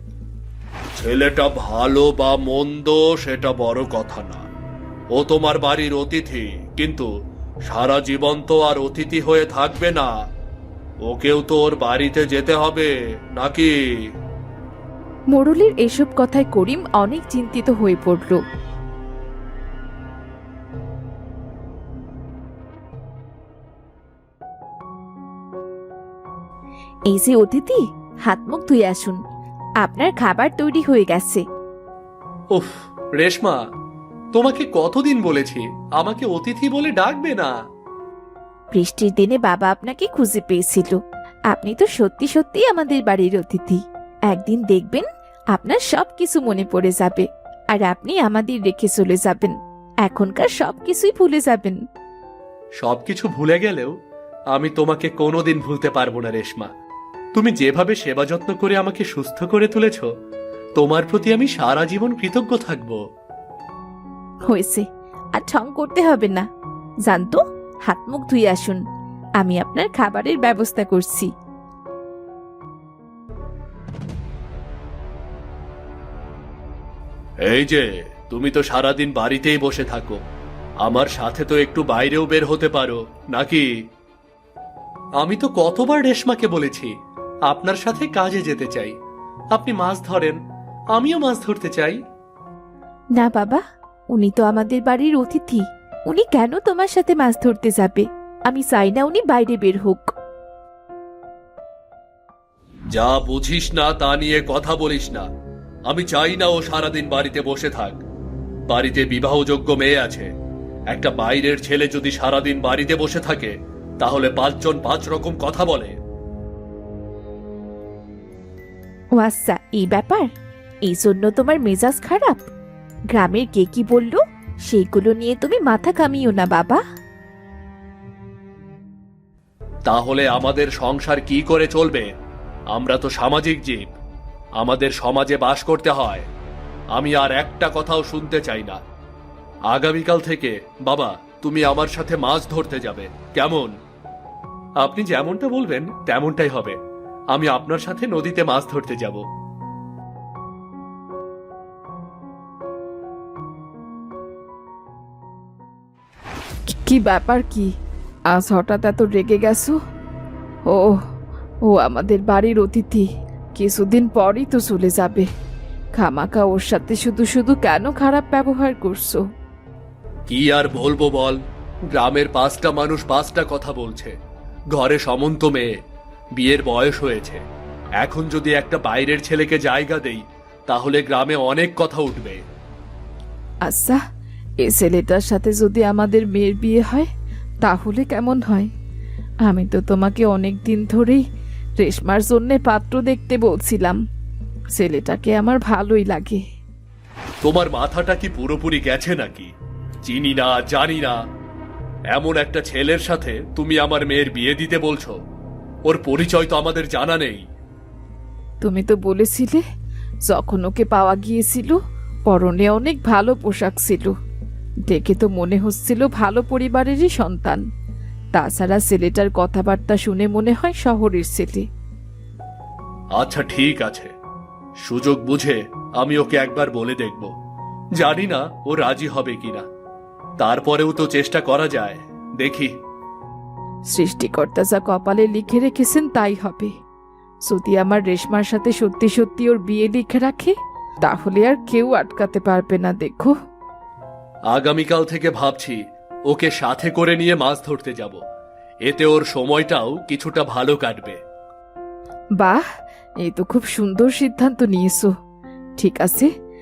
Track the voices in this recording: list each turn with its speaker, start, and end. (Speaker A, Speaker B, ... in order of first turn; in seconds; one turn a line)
Speaker A: 0.9-4.5
Speaker A: 5.1-7.1
Speaker A: 7.7-10.1
Speaker A: 11.1-13.7
Speaker B: 15.3-18.4
Speaker B: 27.1-29.2
Speaker B: 29.8-31.4
Speaker A: 32.5-33.6
Speaker A: 34.3-37.5
Speaker B: 38.7-41.0
Speaker B: 41.5-51.8
Speaker A: 52.8-53.9
Speaker A: 54.5-56.7
Speaker A: 57.3-60.1
Speaker A: 60.8-63.0
Speaker B: 64.5-66.5
Speaker B: 67.1-68.8
Speaker B: 69.4-71.3
Speaker A: 77.5-80.2
Speaker A: 80.8-83.7
Speaker A: 85.2-86.9
Speaker A: 87.5-88.9
Speaker A: 89.5-90.4
Speaker A: 90.9-92.0
Speaker B: 93.2-100.1
Speaker A: 102.9-105.3
Speaker A: 105.9-108.0
Speaker A: 108.7-110.3
Speaker A: 110.9-115.9
Speaker B: 119.2-120.3
Speaker B: 120.8-122.5
Speaker B: 123.1-126.8
Speaker A: 129.9-132.1
Speaker A: 132.7-133.9
Speaker A: 134.6-136.3
Speaker A: 136.9-138.8
Speaker A: 139.7-143.7
Speaker A: 144.8-146.8
Speaker A: 147.3-149.2
Speaker B: 156.7-157.7
Speaker B: 158.3-159.8
Speaker B: 160.7-161.0
Speaker B: 161.6-165.3
Speaker B: 166.0-169.2
Speaker A: 170.3-171.4
Speaker A: 171.9-174.1
Speaker A: 174.7-175.7
Speaker A: 176.4-177.4
Speaker A: 178.0-182.4
Speaker B: 183.7-184.0
Speaker B: 184.6-187.1
Speaker B: 187.6-188.7
Speaker B: 189.4-191.2
Speaker B: 191.8-194.0
Speaker B: 194.7-196.4
Speaker A: 197.4-199.5
Speaker A: 200.1-201.2
Speaker A: 202.1-205.2
Speaker A: 205.9-207.4
Speaker B: 208.6-209.6
Speaker B: 210.3-214.1
Speaker B: 214.9-217.6
Speaker B: 218.3-221.7
Speaker A: 223.2-224.1
Speaker A: 224.8-227.3
Speaker A: 228.0-229.7
Speaker A: 230.4-232.7
Speaker B: 233.9-236.8
Speaker B: 237.4-243.3
Speaker A: 244.5-248.2
Speaker A: 248.8-251.2
Speaker B: 253.2-255.1
Speaker B: 255.8-256.3